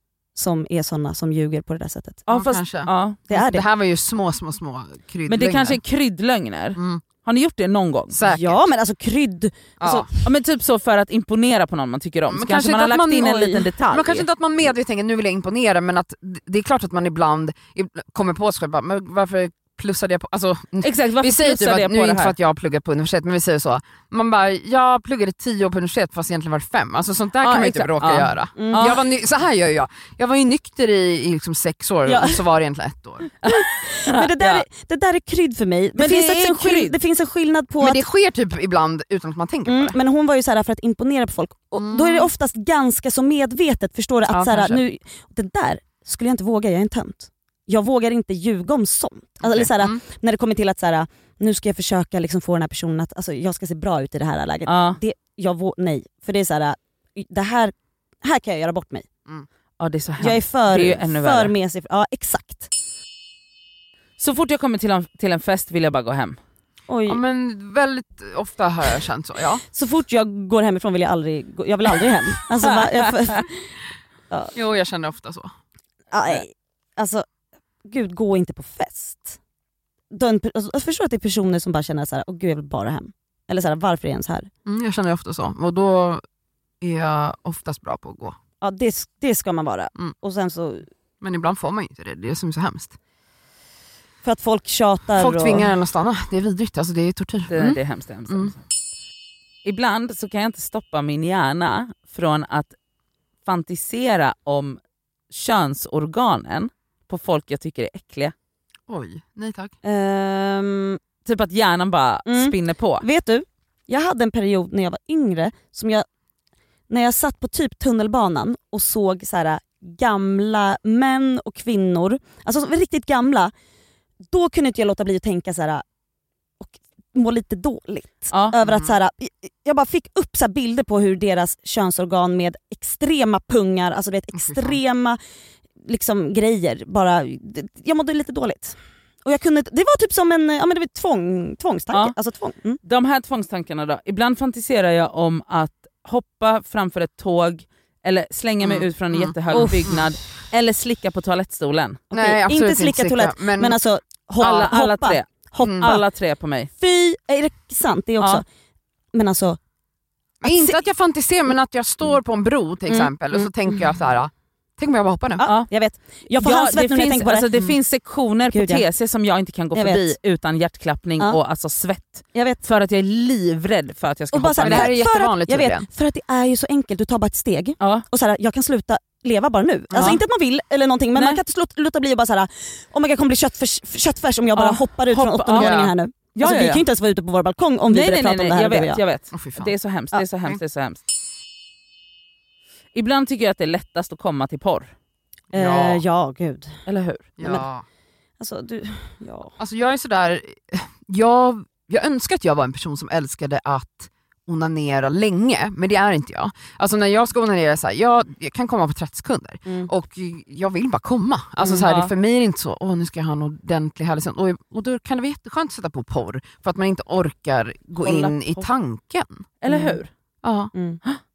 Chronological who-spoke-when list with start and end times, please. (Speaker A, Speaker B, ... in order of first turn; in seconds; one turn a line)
Speaker A: 0.3-2.3
Speaker B: 2.3-3.2
Speaker C: 2.3-5.8
Speaker A: 3.3-3.7
Speaker B: 5.3-8.2
Speaker C: 6.8-7.0
Speaker C: 8.1-8.6
Speaker A: 8.3-10.1
Speaker C: 9.8-10.1
Speaker B: 10.2-14.3
Speaker C: 12.3-33.3
Speaker B: 20.8-22.4
Speaker B: 27.4-29.0
Speaker A: 28.6-29.0
Speaker A: 32.1-32.4
Speaker B: 33.4-34.6
Speaker A: 33.5-38.1
Speaker B: 36.0-37.0
Speaker C: 37.8-40.0
Speaker A: 39.7-59.1
Speaker C: 41.8-42.3
Speaker C: 44.3-44.8
Speaker C: 49.4-50.0
Speaker B: 54.7-55.0
Speaker B: 59.8-61.5
Speaker A: 60.2-62.7
Speaker B: 64.2-66.4
Speaker A: 66.9-67.2
Speaker C: 67.1-69.6
Speaker A: 69.7-73.8
Speaker C: 74.5-75.5
Speaker A: 76.1-77.2
Speaker A: 77.8-79.4
Speaker A: 80.1-84.5
Speaker C: 84.7-86.2
Speaker C: 86.8-88.4
Speaker A: 88.6-90.9
Speaker C: 91.2-93.0
Speaker A: 94.2-95.8
Speaker C: 95.2-98.5
Speaker B: 97.5-98.6
Speaker B: 99.6-102.7
Speaker B: 103.5-104.8
Speaker B: 105.3-108.3
Speaker C: 108.9-109.7
Speaker A: 109.8-111.0
Speaker B: 111.2-113.0
Speaker A: 112.3-116.1
Speaker A: 116.9-123.5
Speaker A: 124.3-125.8
Speaker A: 126.6-135.2
Speaker C: 134.4-134.7
Speaker A: 135.8-142.8
Speaker B: 142.8-152.1
Speaker C: 148.6-150.1
Speaker A: 152.1-156.1
Speaker C: 152.1-153.8
Speaker B: 154.4-156.7
Speaker C: 155.6-155.9
Speaker A: 156.8-158.4
Speaker A: 159.1-159.6
Speaker C: 160.4-165.4
Speaker A: 160.4-160.8
Speaker A: 162.9-163.5
Speaker A: 165.4-167.6
Speaker B: 165.4-165.7
Speaker B: 166.4-175.1
Speaker A: 168.5-168.9
Speaker A: 169.7-170.1
Speaker A: 172.3-172.6
Speaker A: 174.3-189.0
Speaker C: 174.7-175.9
Speaker C: 179.9-180.2
Speaker B: 179.9-180.2
Speaker B: 181.2-181.4
Speaker B: 184.6-186.8
Speaker C: 185.6-185.9
Speaker B: 187.9-191.0
Speaker C: 189.3-189.8
Speaker B: 192.9-194.9
Speaker C: 195.5-196.0
Speaker A: 195.5-196.8
Speaker B: 196.9-197.6
Speaker C: 197.4-197.9
Speaker A: 198.4-199.5
Speaker C: 199.6-219.5
Speaker B: 211.6-212.1
Speaker B: 218.0-218.7
Speaker B: 219.6-220.1
Speaker A: 219.7-220.0
Speaker C: 220.4-220.7
Speaker A: 220.7-221.0